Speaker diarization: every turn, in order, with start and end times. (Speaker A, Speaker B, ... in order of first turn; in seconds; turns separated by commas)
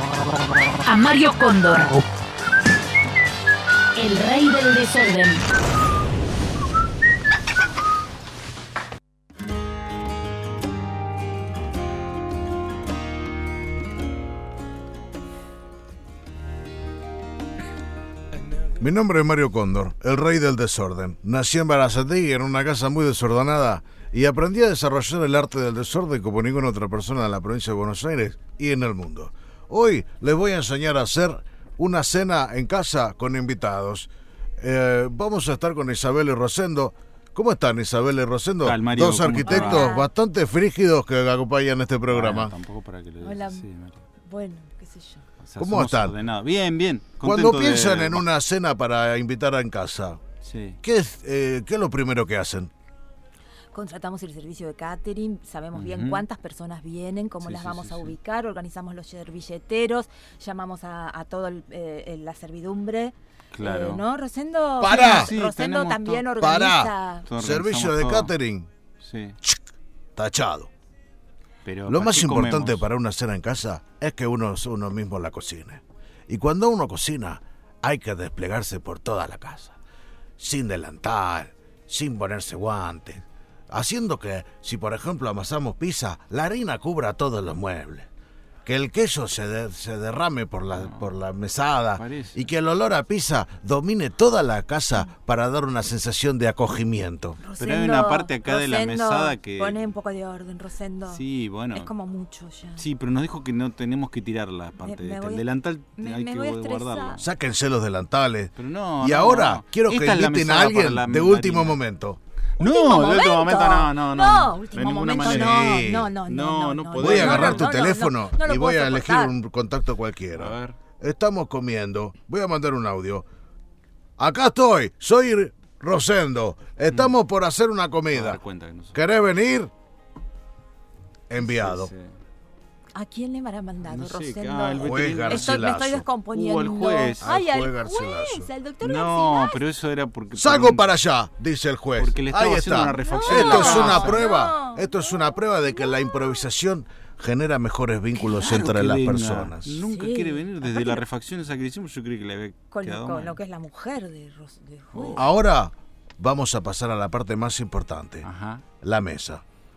Speaker A: 0.8-2.0, Speaker A: 4.0-5.5, Speaker B: 18.8-34.1, Speaker B: 34.6-42.5, Speaker C: 38.6-39.9, Speaker D: 39.4-40.1, Speaker C: 42.1-44.0, Speaker D: 43.2-43.7, Speaker D: 44.2-45.2, Speaker C: 45.4-48.3, Speaker B: 45.6-46.1, Speaker B: 47.2-50.2, Speaker C: 50.4-50.8, Speaker B: 50.8-52.7, Speaker D: 53.7-67.3, Speaker C: 55.7-56.3, Speaker C: 57.4-58.1, Speaker C: 63.5-64.0, Speaker B: 64.8-65.3, Speaker C: 64.8-66.2, Speaker B: 66.4-68.7, Speaker C: 67.3-68.3, Speaker C: 69.0-69.4, Speaker B: 70.2-70.7, Speaker C: 71.7-72.9, Speaker B: 71.9-79.8, Speaker B: 80.4-88.1, Speaker B: 88.7-97.4, Speaker C: 90.7-91.2, Speaker C: 92.0-92.5, Speaker D: 97.4-102.9, Speaker C: 97.6-99.8, Speaker C: 101.1-101.9, Speaker C: 102.8-107.2, Speaker D: 104.8-105.4, Speaker D: 106.0-107.2, Speaker B: 107.2-112.2, Speaker C: 108.6-111.8, Speaker C: 112.6-117.7, Speaker D: 112.6-119.3, Speaker B: 115.2-116.1, Speaker B: 117.0-123.3, Speaker C: 120.3-120.8, Speaker B: 124.2-128.4, Speaker C: 128.1-129.0, Speaker B: 128.9-129.7, Speaker B: 131.3-131.9, Speaker C: 131.3-132.1, Speaker D: 132.9-139.6, Speaker C: 133.9-135.6, Speaker B: 134.8-136.1, Speaker C: 136.3-137.3, Speaker B: 137.2-138.5, Speaker C: 138.8-140.9, Speaker B: 140.3-149.8, Speaker C: 142.0-144.3, Speaker D: 143.0-144.9, Speaker C: 148.2-153.4, Speaker D: 149.9-151.0, Speaker D: 152.7-155.3, Speaker C: 154.9-155.3, Speaker B: 155.2-158.3, Speaker C: 158.2-158.6, Speaker B: 158.8-159.4